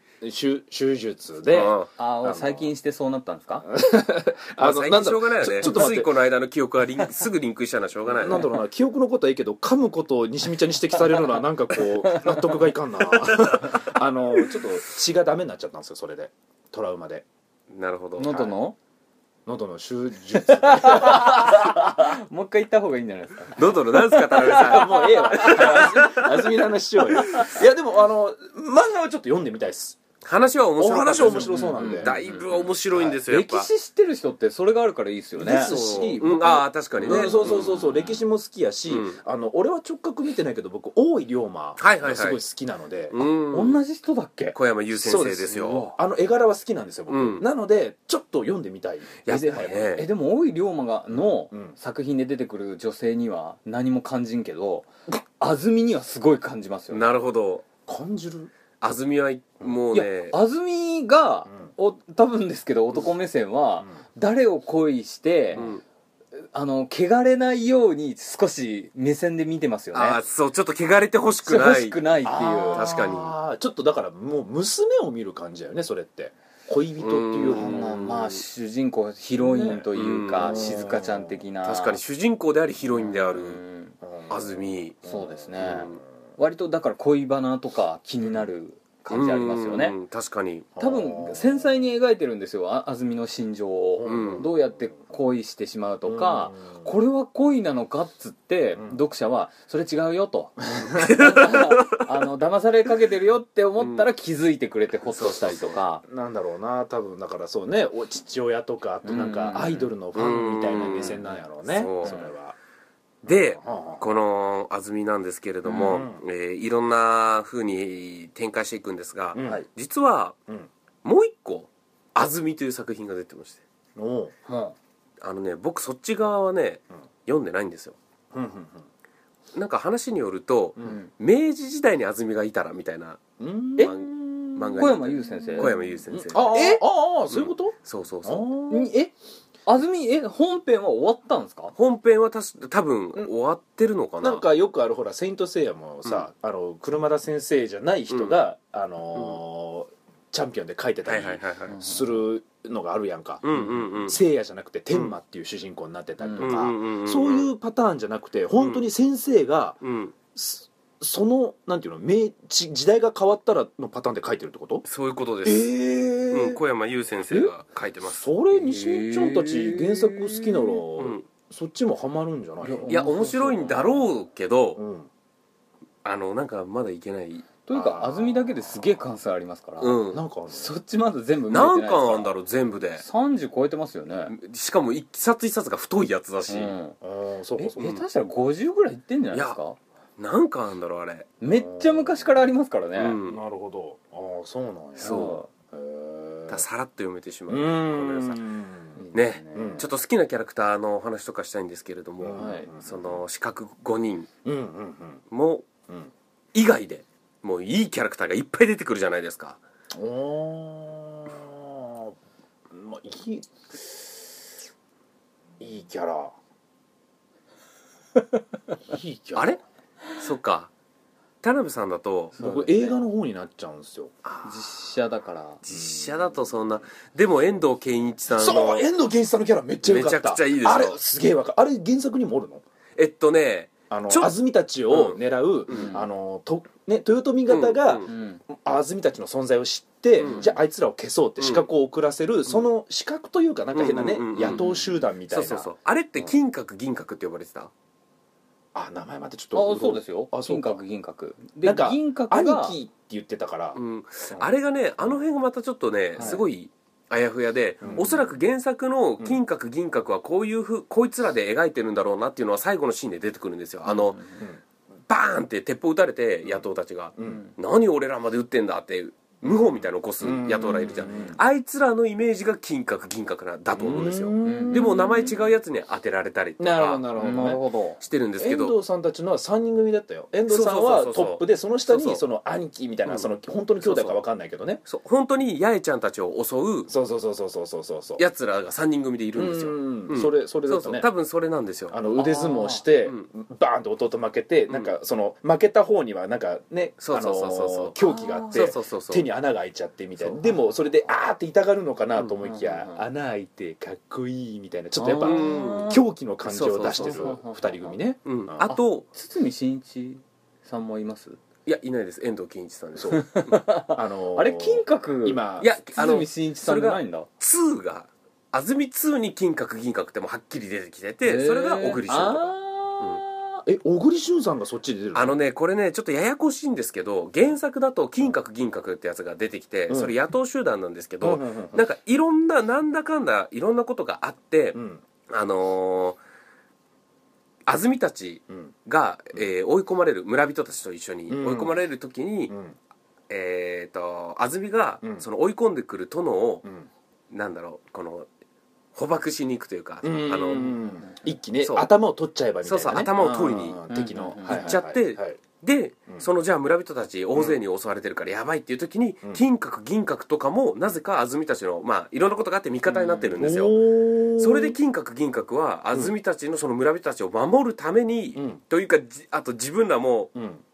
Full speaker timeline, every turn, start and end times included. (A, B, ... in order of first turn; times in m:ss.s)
0:00.2-0:02.7 A
0:01.5-0:01.9 B
0:02.0-0:03.7 C
0:03.6-0:06.1 A
0:04.6-0:08.5 B
0:08.1-0:17.2 A
0:12.0-0:12.6 C
0:13.3-0:13.7 B
0:17.7-0:18.5 B
0:18.2-0:18.8 C
0:19.4-0:21.9 A
0:20.4-0:26.0 C
0:23.5-0:26.5 B
0:24.4-0:30.0 A
0:27.2-0:27.5 C
0:30.2-0:33.7 B
0:30.8-0:32.2 A
0:31.2-0:32.5 C
0:33.2-0:35.7 C
0:35.4-0:43.2 A
0:35.5-0:37.8 B
0:37.0-0:38.2 C
0:38.9-0:39.2 B
0:41.8-0:42.4 B
0:43.1-0:43.8 B
0:43.5-0:44.6 C
0:44.5-0:45.9 B
0:45.0-0:50.0 A
0:45.5-0:46.0 C
0:47.1-0:47.4 B
0:49.2-0:50.1 B
0:49.3-0:57.2 C
0:51.2-0:51.8 A
0:56.9-0:57.6 B
0:57.8-0:58.5 A
0:58.8-1:00.4 B
0:59.9-1:05.7 C
1:05.5-1:05.8 B
1:06.5-1:10.2 C
1:09.9-1:12.0 B
1:11.4-1:12.9 C
1:12.2-1:18.0 A
1:12.7-1:13.4 B
1:17.0-1:18.4 B
1:17.4-1:22.0 C
1:19.4-1:21.4 A
1:19.9-1:20.8 B
1:21.6-1:23.6 B
1:22.8-1:23.9 C
1:24.0-1:26.0 A
1:24.3-1:25.0 B
1:25.0-1:30.0 C
1:25.6-1:25.9 B
1:29.1-1:30.7 B
1:30.8-1:31.7 A
1:30.8-1:46.0 C
1:34.0-1:34.8 A
1:34.0-1:34.5 B
1:36.0-1:36.9 A
1:40.8-1:41.1 A
1:41.0-1:42.0 B
1:43.8-1:44.1 B
1:45.1-1:45.8 B
1:46.0-1:52.6 A
1:49.0-1:49.9 C
1:50.1-1:52.1 B
1:51.0-1:51.3 C
1:52.0-1:52.3 C
1:53.2-1:54.1 A
1:53.2-2:00.4 B
1:55.6-1:55.9 C
1:55.7-1:56.2 A
1:59.3-1:59.6 A
2:01.0-2:03.6 B
2:04.0-2:04.4 A
2:04.5-2:04.7 C
2:05.2-2:08.0 B
2:08.3-2:08.8 A
2:09.5-2:13.2 B
2:10.8-2:11.1 C
2:13.4-2:18.9 A
2:13.8-2:16.6 B
2:14.7-2:15.8 C
2:16.3-2:16.8 C
2:17.3-2:18.5 B
2:18.7-2:19.1 C
2:19.6-2:21.7 C
2:21.8-2:24.4 B
2:24.2-2:39.8 A
2:28.1-2:28.4 B
2:31.0-2:31.9 B
2:31.7-2:32.1 C
2:33.4-2:34.2 B
2:36.2-2:36.6 C
2:36.4-2:37.5 B
2:38.6-2:38.8 B
2:39.8-2:40.1 B
2:40.3-2:44.8 A
2:44.8-2:45.7 B
2:45.4-2:46.6 A
2:46.3-2:48.3 B
2:47.3-2:47.5 A
2:48.1-2:53.0 A
2:48.5-2:50.8 C
2:51.0-2:51.2 B
2:52.6-2:54.0 C
2:52.9-2:54.8 B
2:54.8-2:55.1 A
2:56.0-2:57.5 B
2:57.6-3:02.3 C
2:57.7-2:58.9 A
2:59.8-3:00.2 B
3:00.1-3:00.7 A
3:01.5-3:03.0 B
3:03.0-3:04.3 C
3:04.3-3:06.8 B
3:06.4-3:06.9 C
3:07.0-3:08.0 A
3:07.6-3:09.8 C
3:09.3-3:09.6 B
3:10.2-3:11.3 B
3:11.4-3:13.2 C
3:11.5-3:12.4 A
3:13.0-3:13.4 B
3:13.2-3:16.6 A
3:15.0-3:15.5 C
3:15.0-3:15.4 B
3:16.5-3:18.4 B
3:17.5-3:19.0 A
3:19.0-3:19.8 C
3:19.1-3:24.3 B
3:19.5-3:19.9 A
3:22.2-3:23.2 A
3:22.3-3:22.7 C
3:24.4-3:25.2 A
3:25.3-3:25.7 B
3:26.5-3:29.6 B
3:29.9-3:32.1 A
3:32.7-3:34.2 A
3:35.6-3:36.3 A
3:38.9-3:39.6 A
3:40.2-3:40.7 B
3:41.4-3:42.4 B
3:42.4-3:43.0 C
3:42.4-3:44.1 A
3:44.2-3:44.6 B
3:44.4-3:45.6 C
3:45.6-3:48.9 B
3:45.7-3:46.4 A
3:48.3-3:52.6 A
3:49.8-3:51.0 B
3:53.0-3:54.3 B
3:53.9-4:05.7 A
3:54.9-3:55.9 B
3:55.7-3:56.1 C
3:57.5-3:58.1 B
3:58.1-3:58.4 C
4:00.2-4:00.5 B
4:00.2-4:00.6 C
4:01.4-4:01.6 B
4:03.7-4:04.7 B
4:04.4-4:04.9 C
4:05.3-4:07.7 B
4:08.7-4:10.8 A
4:09.5-4:12.8 C
4:11.6-4:13.8 A
4:13.7-4:24.2 B
4:16.2-4:16.4 C
4:17.8-4:18.3 A
4:25.1-4:38.8 B
4:27.2-4:27.4 A
4:27.2-4:27.5 C
4:29.4-4:31.4 A
4:33.7-4:35.4 A
4:34.4-4:35.3 C
4:36.6-4:37.6 A
4:37.2-4:38.0 C
4:38.4-4:44.8 A
4:40.5-4:42.2 B
4:43.8-4:44.2 B
4:44.8-4:46.9 B
4:46.9-4:48.2 A
4:48.2-4:52.0 B
4:49.3-4:51.1 A
4:51.9-5:08.7 A
4:52.1-4:52.8 C
4:54.7-4:54.9 B
4:57.0-4:58.0 B
4:58.0-4:58.7 C
4:58.5-4:59.3 B
5:00.4-5:00.7 C
5:02.4-5:03.0 C
5:05.0-5:06.0 C
5:05.2-5:07.3 B
5:07.0-5:08.0 C
5:08.2-5:09.0 B
5:08.6-5:11.4 C
5:11.6-5:13.3 B
5:13.0-5:13.3 A
5:13.1-5:17.3 C
5:13.9-5:15.8 A
5:15.6-5:23.2 B
5:21.2-5:23.6 C
5:23.6-5:25.4 A
5:25.1-5:36.2 B
5:29.9-5:30.1 A
5:31.2-5:31.8 A
5:34.7-5:35.0 A
5:37.6-5:42.5 B
5:41.3-5:41.7 A
5:42.5-5:42.8 A
5:43.3-5:46.6 B
5:47.3-5:48.3 B
5:48.9-5:50.8 B
5:50.0-5:55.4 A
5:50.5-5:51.2 C
5:51.6-5:51.9 B
5:52.6-5:53.8 B
5:53.9-5:54.8 C
5:54.4-6:10.3 B
5:57.3-5:57.6 A
6:02.9-6:03.3 C
6:03.4-6:04.8 A
6:08.3-6:08.6 A
6:10.3-6:10.6 A